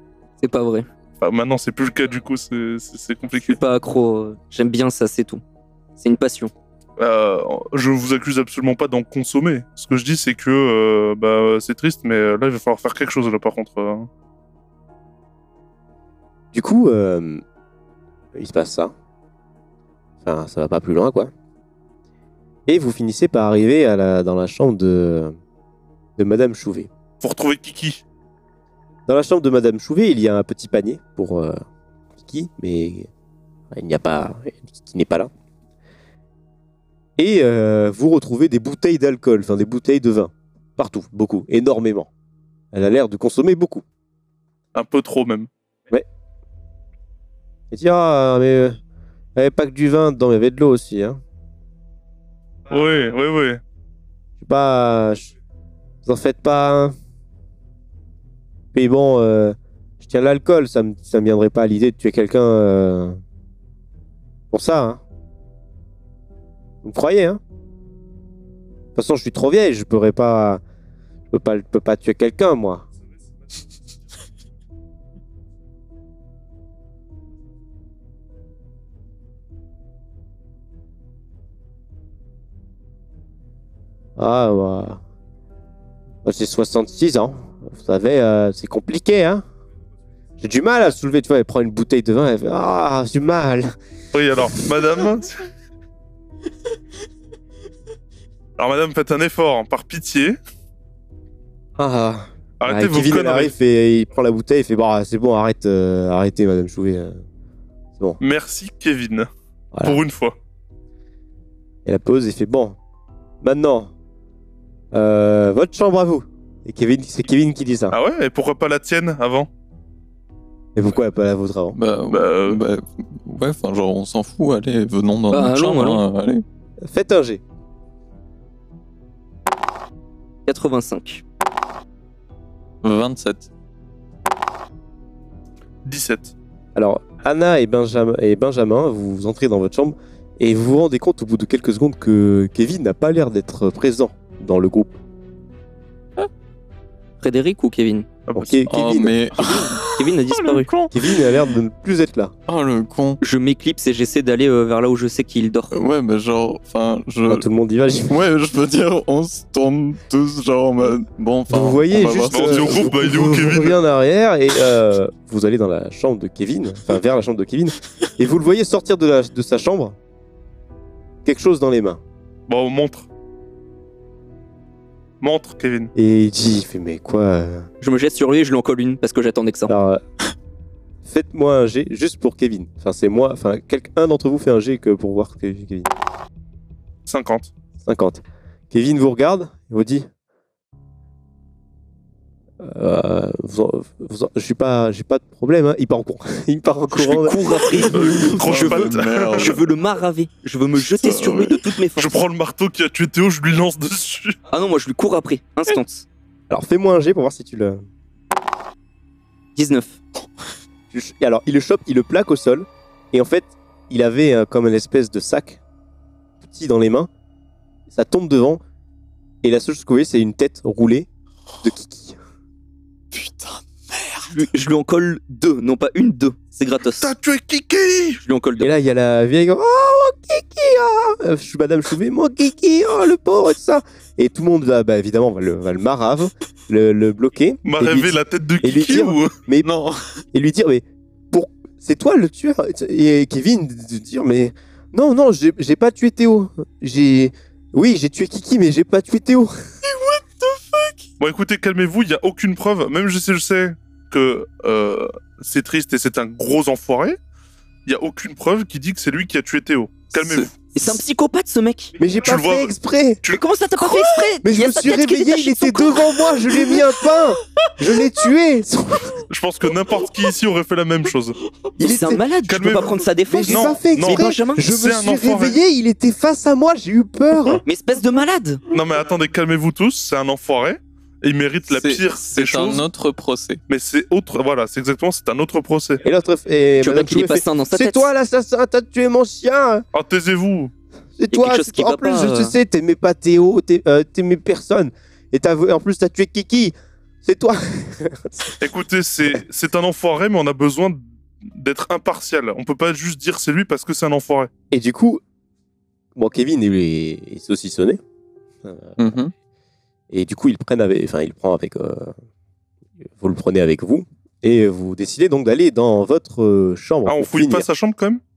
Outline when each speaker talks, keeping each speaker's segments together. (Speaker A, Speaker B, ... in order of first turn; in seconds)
Speaker A: 0.4-0.9, 3.4-5.4, 6.0-6.5, 125.3-126.0, 130.4-131.2, 147.2-148.1, 149.8-150.7, 153.2-155.7, 177.8-179.7, 197.0-202.2, 204.5-206.1, 209.5-210.0, 224.2-227.1, 228.2-228.7, 260.7-262.0, 263.3-266.8, 271.8-274.6, 277.6-278.6, 286.8-288.1, 291.3-292.5
Speaker B: 1.2-3.6, 7.0-14.1, 27.2-28.0, 44.7-45.5, 52.7-53.6, 94.1-95.3, 98.6-100.4, 102.6-103.5, 108.2-109.3, 109.8-110.3, 117.9-119.5, 122.1-122.6, 135.8-136.3, 148.3-148.6, 162.3-163.7, 172.5-173.1, 175.2-175.9, 187.1-187.5, 197.9-199.6, 201.9-204.4, 227.0-228.2, 237.6-239.3, 251.2-257.2, 257.9-260.6, 262.2-263.4, 269.3-271.4, 272.4-275.6, 278.7-282.8, 283.7-286.0, 289.9-290.7, 298.6-304.5, 317.1-318.2
Speaker C: 16.5-17.4, 18.3-18.9, 20.2-21.3, 22.7-25.4, 26.2-26.9, 29.1-31.6, 32.2-33.1, 33.7-35.3, 37.2-42.1, 42.7-43.8, 47.7-48.8, 49.4-51.2, 54.4-55.3, 56.0-56.9, 58.7-63.2, 64.5-65.0, 66.8-67.4, 68.9-70.6, 71.3-72.8, 84.2-85.0, 86.2-89.4, 90.4-93.7, 101.8-107.2, 109.7-110.0, 111.8-112.8, 113.4-113.9, 114.9-118.0, 120.8-121.8, 126.8-127.4, 136.7-145.0, 148.3-149.2, 150.9-152.3, 157.2-158.2, 161.5-170.0, 171.2-172.0, 175.9-177.7, 179.7-180.0, 181.0-185.9, 187.8-190.1, 192.6-197.4, 206.5-207.8, 210.9-215.6, 216.4-217.1, 217.9-218.6, 219.4-221.1, 221.6-222.2, 228.6-239.7, 240.3-249.5, 262.0-263.2, 264.4-269.2, 271.8-272.2, 273.3-277.6, 286.0-289.9, 291.2-298.6, 304.7-305.2, 306.1-308.0, 308.6-309.0, 310.1-312.1, 313.2-317.7
Speaker D: 121.7-126.4, 132.8-133.5, 148.7-151.5, 152.5-153.2, 155.7-157.5, 158.1-163.0, 197.7-199.6, 200.8-201.6, 223.1-224.3, 239.6-240.2, 249.8-250.9, 281.7-283.6, 309.0-309.3